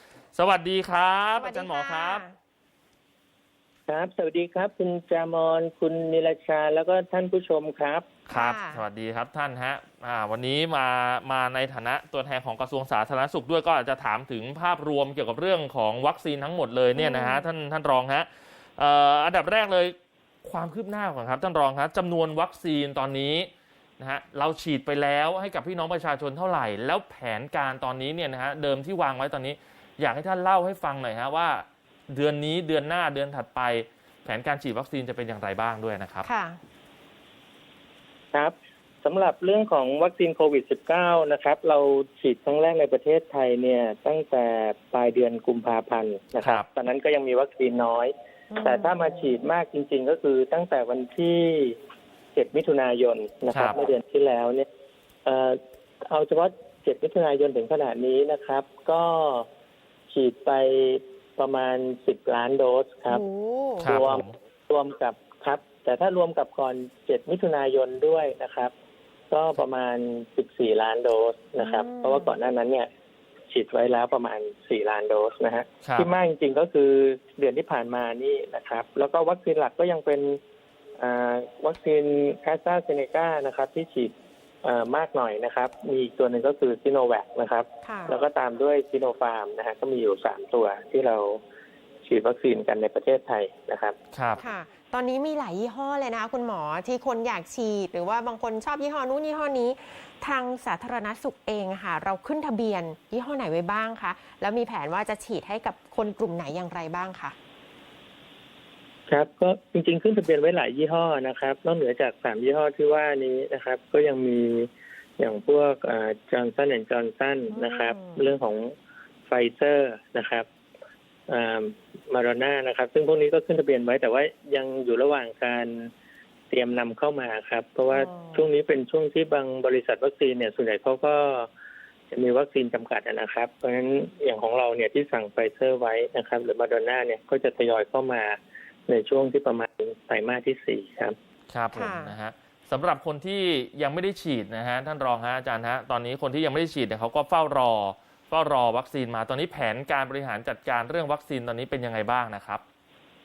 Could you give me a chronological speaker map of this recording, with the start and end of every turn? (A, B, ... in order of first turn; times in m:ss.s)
0:00.3-0:02.2 A
0:01.4-0:02.4 B
0:03.9-0:08.1 C
0:08.3-0:08.8 B
0:08.3-0:36.3 A
0:17.0-0:17.4 B
0:36.2-0:36.6 B
0:38.3-0:51.8 C
0:46.4-0:46.7 A
0:48.5-0:49.0 B
0:52.3-0:54.7 C
0:53.5-0:53.8 A
0:55.2-0:59.5 C
1:00.1-1:03.2 C
1:03.1-1:04.0 B
1:03.8-1:04.3 A
1:03.8-1:08.7 C
1:09.3-1:12.9 C
1:11.6-1:12.3 B
1:13.5-1:20.4 C
1:15.8-1:16.1 A
1:21.0-1:31.4 C
1:27.8-1:28.2 B
1:32.0-1:34.0 C
1:34.1-1:34.4 A
1:34.4-1:47.3 B
1:49.1-1:58.7 C
1:57.5-1:58.3 B
1:59.3-2:00.5 C
2:01.3-2:05.9 C
2:06.5-2:11.5 C
2:07.9-2:08.4 B
2:12.1-2:18.4 C
2:18.9-2:21.2 C
2:21.5-2:32.6 A
2:21.7-2:22.2 B